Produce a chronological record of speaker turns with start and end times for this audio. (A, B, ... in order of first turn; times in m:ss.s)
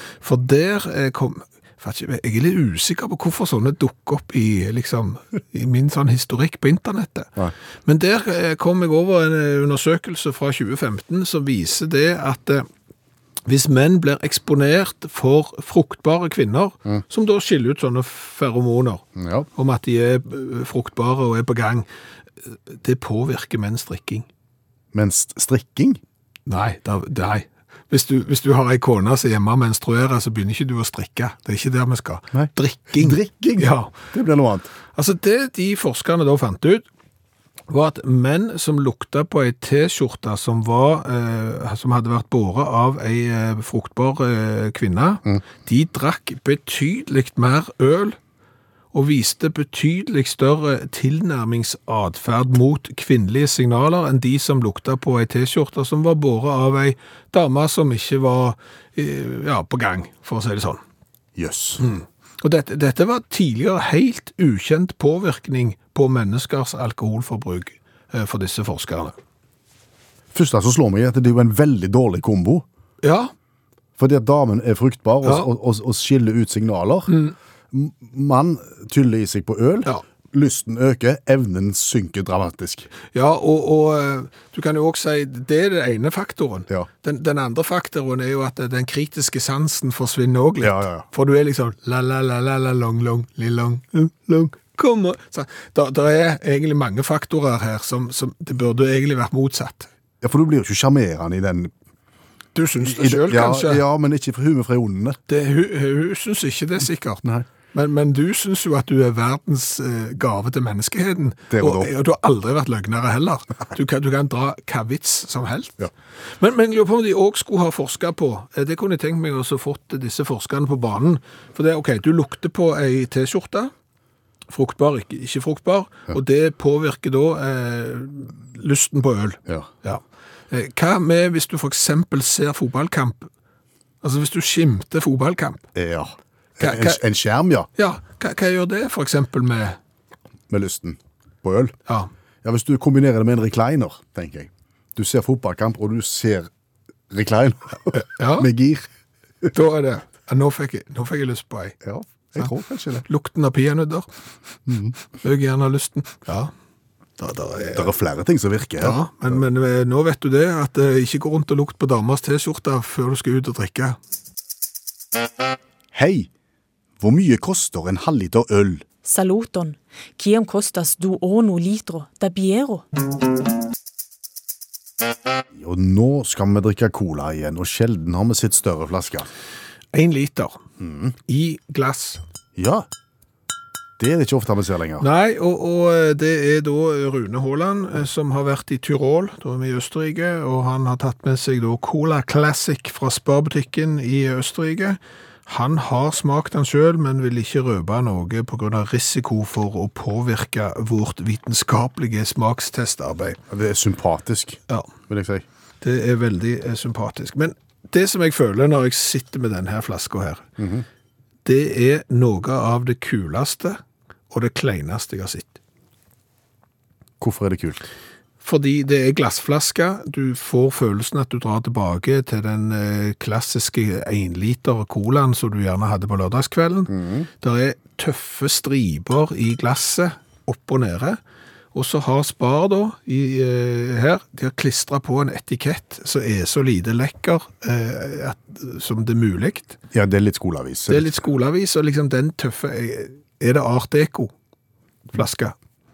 0:00.2-0:07.3 A
0:07.8-0:12.7 A
0:13.4-0:19.0 A
0:19.2-0:19.5 B
0:19.6-0:21.8 A
0:22.5-0:24.2 A
0:24.9-0:26.0 B
0:26.5-0:33.9 A
0:32.3-0:34.7 B
0:34.9-0:36.8 A
0:37.7-0:48.2 A
0:48.9-1:00.8 A
1:01.4-1:01.8 B
1:01.8-1:09.1 A
1:10.3-1:12.6 B
1:13.0-1:13.3 A
1:14.0-1:17.2 B
1:17.1-1:17.3 A
1:17.7-1:22.9 B
1:23.1-1:39.9 A
1:30.6-1:31.0 B
1:40.2-1:41.7 B
1:42.5-1:43.8 A
1:42.8-1:45.2 B
1:45.3-1:55.8 A
1:51.5-1:51.9 B
1:56.4-2:03.7 A
2:04.5-2:13.3 A
2:14.0-2:15.6 A
2:15.7-2:17.7 B
2:16.6-2:17.0 A
2:17.8-2:19.8 A
2:20.5-2:21.8 B
2:22.4-2:26.5 B
2:27.1-2:28.9 B
2:27.9-2:28.5 A
2:29.5-2:31.8 A
2:31.8-2:33.0 B
2:33.0-2:34.0 A
2:34.7-2:34.9 B
2:35.2-2:36.5 A
2:37.2-2:37.9 A
2:37.7-2:39.4 B
2:38.8-2:44.0 A
2:45.9-2:46.3 B
2:47.0-2:48.8 B
2:49.0-2:52.8 C
2:55.5-2:59.3 B
2:59.9-3:00.6 A
3:00.8-3:01.1 B
3:01.3-3:02.2 A
3:02.6-3:02.8 B
3:04.0-3:05.1 B
3:05.0-3:23.4 A
3:23.5-3:25.4 B
3:25.8-3:30.4 A
3:30.6-3:30.8 B
3:31.4-3:33.8 A
3:34.3-3:35.6 A
3:37.2-3:37.8 B
3:38.4-3:51.2 A
3:46.9-3:47.3 B
3:51.7-3:59.8 A
3:59.9-4:01.1 B
4:00.9-4:04.3 A
4:05.1-4:05.5 A